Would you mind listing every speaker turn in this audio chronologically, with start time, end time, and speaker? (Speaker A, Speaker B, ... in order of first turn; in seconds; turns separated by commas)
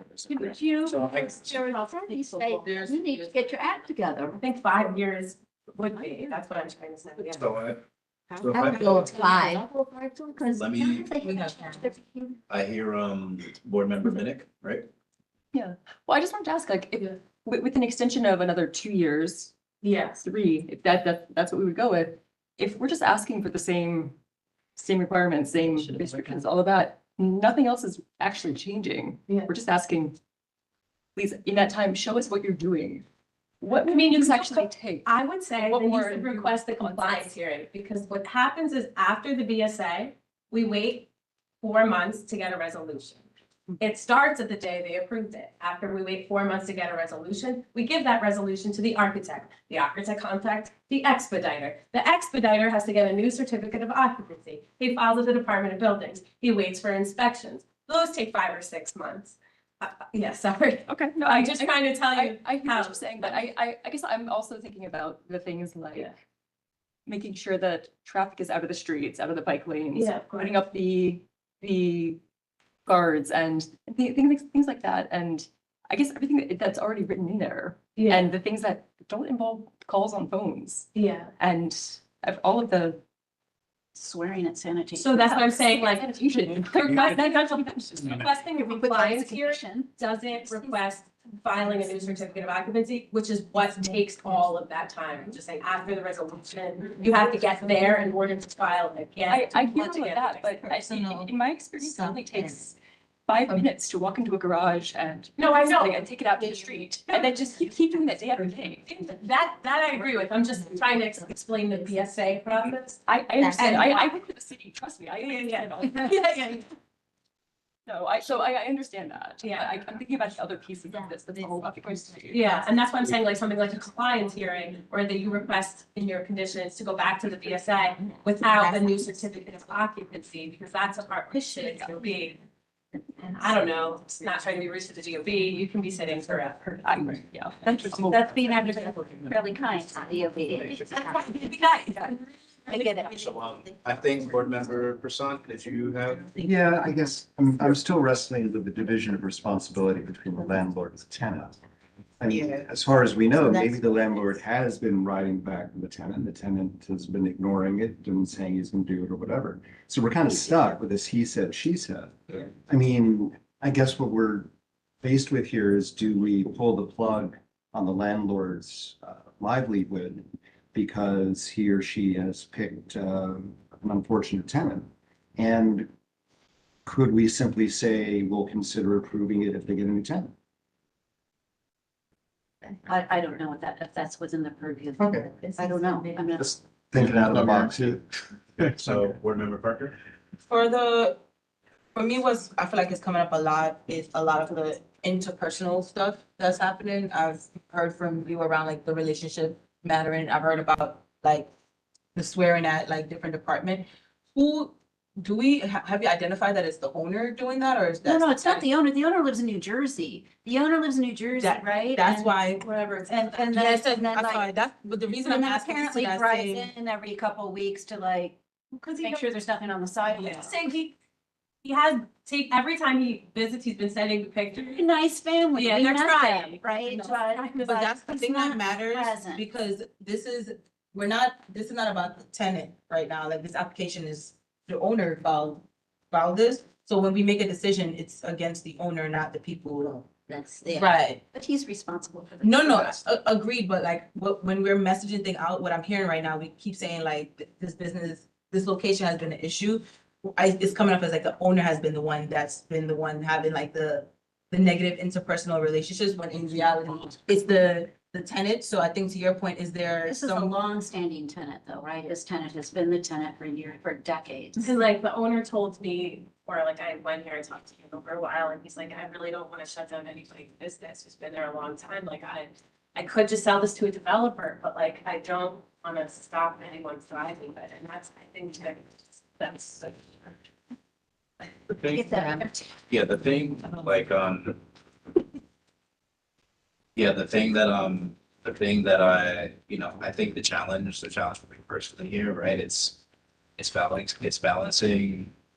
Speaker A: 0.2-1.5, Speaker B: 0.3-4.4, Speaker C: 2.1-3.8, Speaker D: 4.4-7.5, Speaker B: 5.9-6.3, Speaker A: 7.2-7.8, Speaker A: 8.4-9.3, Speaker C: 8.5-9.6, Speaker B: 8.6-12.4, Speaker A: 10.5-11.1, Speaker C: 11.1-11.9, Speaker A: 12.5-14.9, Speaker E: 15.5-19.5, Speaker D: 19.8-20.2, Speaker E: 20.2-24.2, Speaker E: 24.8-30.2, Speaker E: 31.2-33.0, Speaker E: 33.6-37.3, Speaker D: 33.7-41.1, Speaker D: 41.6-43.2, Speaker D: 43.8-63.5, Speaker E: 60.9-66.1, Speaker E: 67.1-72.2, Speaker D: 69.9-70.5, Speaker E: 72.9-83.0, Speaker D: 78.0-78.3, Speaker D: 80.9-81.3, Speaker B: 84.0-85.7, Speaker D: 85.0-100.6, Speaker E: 85.7-88.2, Speaker B: 88.5-89.9, Speaker E: 99.3-102.8, Speaker C: 100.7-102.6, Speaker E: 103.3-108.8, Speaker D: 105.4-106.0, Speaker D: 108.9-113.0, Speaker E: 113.1-116.6, Speaker C: 113.4-114.0, Speaker D: 113.5-114.0, Speaker D: 115.3-116.7, Speaker E: 117.9-122.7, Speaker D: 119.4-119.7, Speaker D: 122.3-132.4, Speaker C: 128.4-128.9, Speaker D: 133.2-136.9, Speaker E: 136.8-138.9, Speaker D: 137.7-139.3, Speaker B: 139.3-141.2, Speaker A: 140.6-140.9, Speaker D: 141.0-142.2, Speaker E: 141.1-142.2, Speaker B: 142.7-143.2, Speaker A: 143.1-146.4, Speaker F: 146.4-151.6, Speaker F: 152.2-164.5, Speaker C: 152.3-152.6, Speaker F: 165.0-175.9, Speaker F: 176.9-180.3, Speaker B: 182.9-186.5, Speaker F: 185.0-185.3, Speaker F: 186.4-188.0, Speaker A: 187.0-187.7, Speaker A: 188.6-190.0, Speaker C: 190.5-191.2, Speaker C: 191.9-201.5, Speaker C: 202.2-208.7, Speaker B: 208.0-212.4, Speaker C: 211.4-216.7, Speaker D: 212.7-213.4, Speaker B: 213.1-214.5, Speaker B: 215.2-218.4, Speaker D: 218.8-219.3, Speaker B: 219.0-220.7, Speaker D: 220.1-220.9, Speaker D: 221.6-224.9, Speaker B: 224.7-229.4, Speaker D: 225.5-228.0, Speaker C: 227.6-240.2, Speaker B: 240.3-243.0, Speaker C: 240.7-241.2, Speaker C: 242.4-260.6, Speaker B: 260.1-264.7, Speaker D: 264.6-280.3, Speaker A: 281.7-282.2, Speaker B: 281.9-282.6, Speaker A: 282.9-284.6, Speaker A: 287.0-293.0, Speaker A: 293.6-295.3